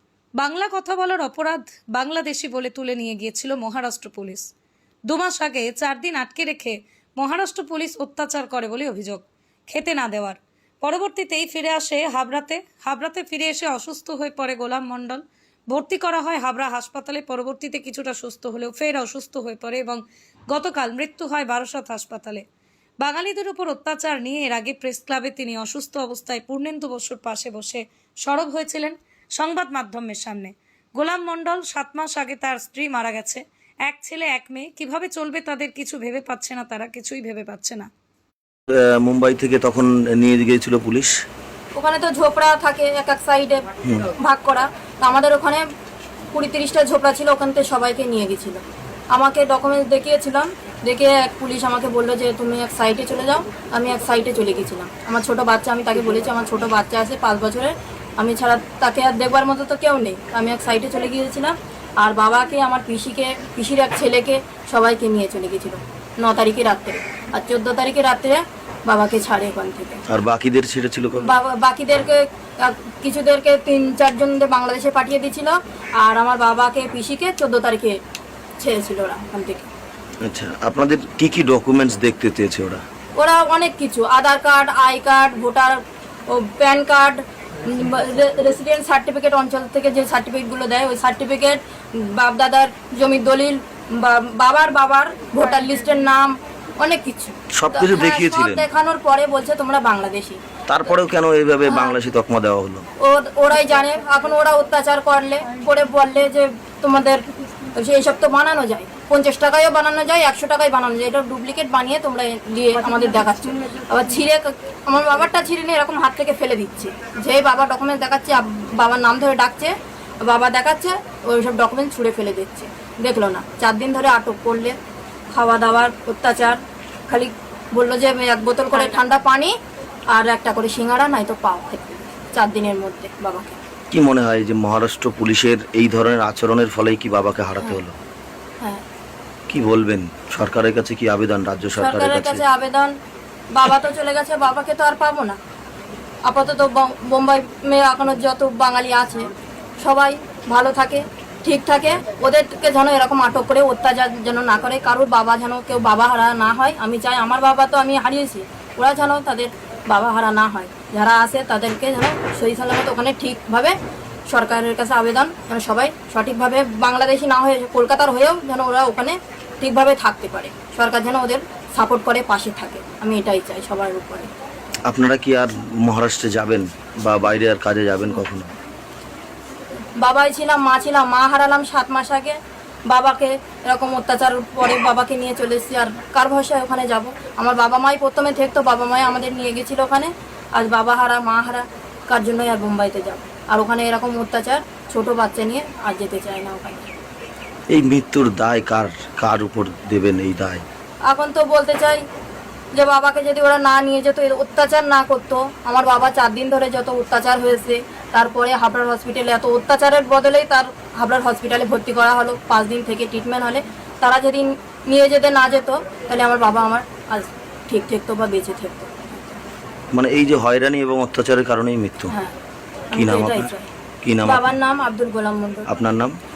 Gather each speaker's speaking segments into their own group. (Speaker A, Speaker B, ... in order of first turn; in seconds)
Speaker A: 0.4-4.5, 5.1-22.4, 23.0-37.9
Speaker B: 38.7-41.1, 70.1-71.3, 80.2-82.8, 97.5-98.7, 100.7-102.9, 133.9-138.0, 139.5-142.4, 174.8-178.5, 197.7-200.6, 219.9-222.1, 222.9-223.5, 224.0-224.5, 225.7-226.1
Speaker C: 41.7-45.6, 46.3-48.6, 49.1-70.0, 71.2-78.0, 78.6-79.7, 83.2-100.4, 103.0-107.2, 107.7-124.7, 125.3-129.5, 130.1-133.6, 141.8-142.9, 143.5-145.4, 146.2-163.7, 164.3-174.3, 180.0-196.9, 201.1-202.0, 202.7-218.9, 222.9-223.7, 224.2-225.7